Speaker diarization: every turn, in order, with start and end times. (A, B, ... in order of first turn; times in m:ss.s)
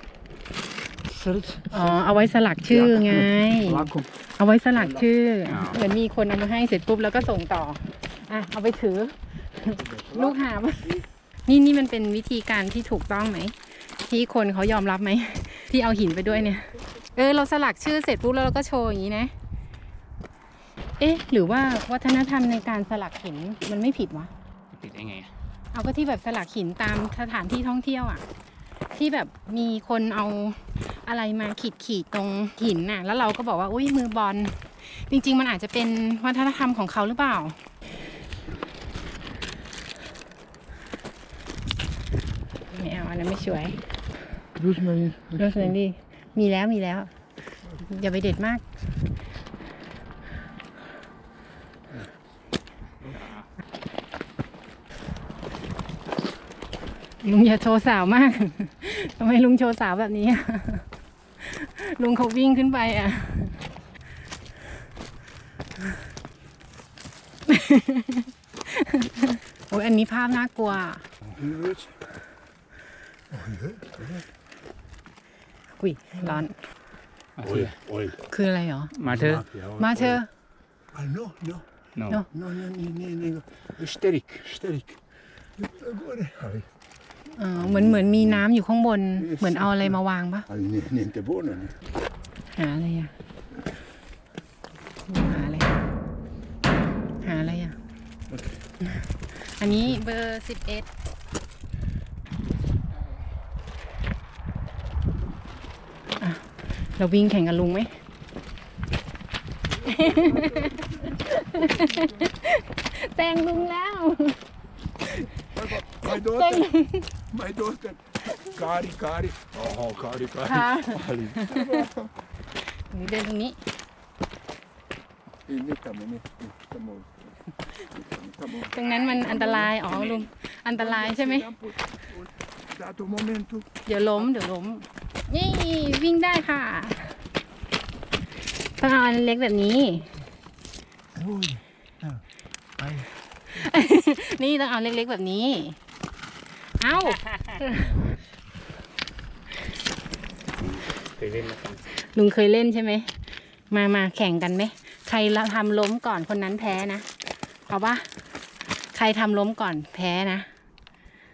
0:01.0-0:02.2 A
0:01.7-0:10.9 B
0:02.7-0:04.1 A
0:04.8-0:05.0 A
0:05.4-0:05.8 C
0:09.8-0:11.0 A
0:11.5-0:19.3 B
0:21.0-0:24.3 B
0:24.7-0:25.3 C
0:25.7-0:28.2 B
0:28.9-0:37.6 B
0:42.7-0:43.8 B
0:44.5-0:45.8 A
0:45.4-0:47.1 B
0:47.8-0:48.6 B
0:53.0-0:53.4 C
0:57.2-1:00.8 B
1:01.4-1:03.6 B
1:07.5-1:11.0 B
1:11.3-1:12.0 A
1:13.3-1:14.3 A
1:15.8-1:16.6 B
1:17.4-1:17.7 C
1:17.4-1:18.2 A
1:18.3-1:18.9 B
1:18.9-1:19.4 C
1:19.0-1:20.2 A
1:19.8-1:20.3 B
1:20.9-1:21.7 A
1:22.0-1:22.2 C
1:22.3-1:25.0 A
1:25.6-1:26.7 A
1:27.4-1:30.5 B
1:27.5-1:28.4 A
1:29.2-1:31.8 A
1:32.5-1:33.1 B
1:35.1-1:35.7 B
1:37.2-1:37.8 B
1:38.3-1:38.6 A
1:38.8-1:40.9 B
1:46.2-1:46.4 B
1:47.0-1:47.9 B
1:49.7-1:52.3 A
1:49.8-1:54.4 B
1:55.4-1:56.7 A
1:55.7-1:57.1 B
1:57.2-2:02.1 A
2:00.4-2:01.8 B
2:02.9-2:03.6 B
2:05.5-2:13.7 A
2:08.7-2:11.5 B
2:09.9-2:10.2 C
2:13.8-2:17.2 B
2:18.8-2:20.1 B
2:21.1-2:22.2 A
2:22.8-2:23.1 A
2:23.5-2:25.8 B
2:26.8-2:27.9 B
2:27.0-2:27.7 C
2:30.6-2:31.8 C
2:31.9-2:33.1 B
2:33.7-2:37.1 B
2:37.6-2:38.1 B
2:38.9-2:40.5 B